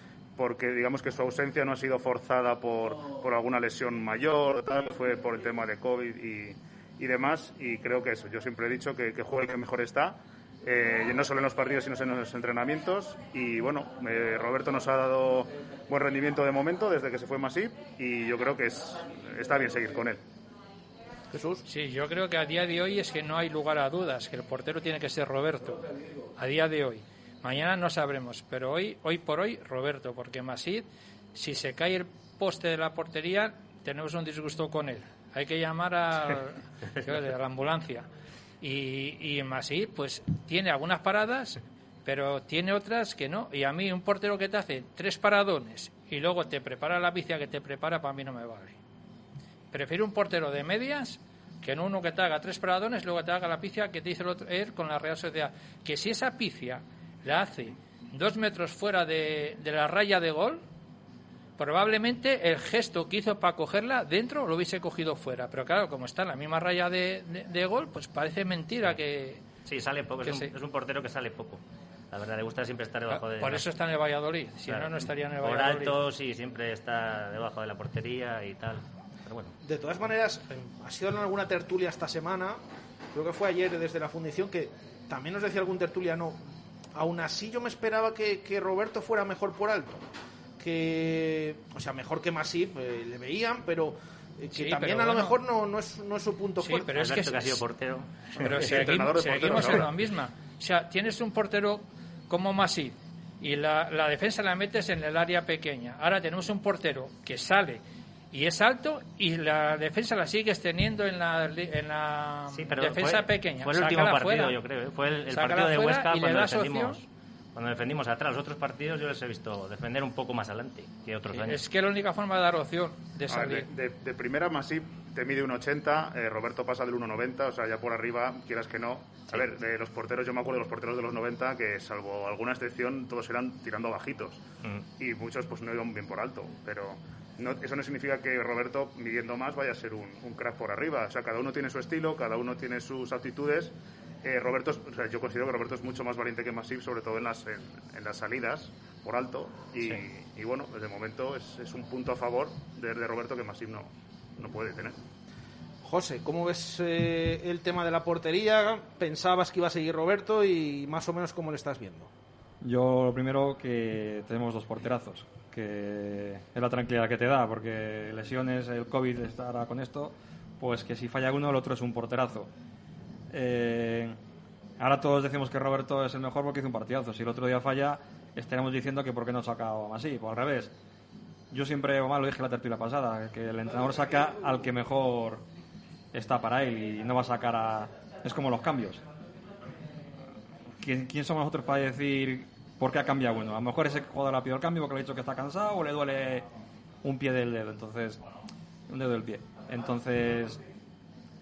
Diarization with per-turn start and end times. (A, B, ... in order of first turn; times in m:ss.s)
0:00.4-0:20.2 A
0:21.3-0:21.6 B
0:21.7-0:25.8 C
0:26.4-0:38.1 C
0:38.6-0:48.8 C
0:49.7-1:00.6 C
1:01.6-1:09.4 C
1:09.6-1:11.6 D
1:10.2-1:10.5 C
1:12.1-1:13.6 D
1:13.1-1:16.0 C
1:14.7-1:19.5 D
1:19.6-1:22.6 B
1:23.1-1:26.4 B
1:26.9-1:30.0 B
1:30.6-1:36.9 B
1:34.5-1:35.4 C
1:36.6-1:37.6 C
1:36.9-1:38.7 D
1:38.4-1:54.6 C
1:38.4-1:39.9 A
1:52.5-2:01.6 D
1:55.3-1:57.0 C
2:01.4-2:03.7 C
2:03.3-2:14.4 A
2:15.0-2:35.0 A
2:35.8-2:42.1 B
2:42.6-2:52.5 E
2:53.3-2:54.2 E
2:54.8-3:00.7 E
3:01.5-3:05.4 E
3:06.1-3:09.0 E
3:10.8-3:16.4 E
3:17.0-3:18.2 E
3:18.9-3:20.6 E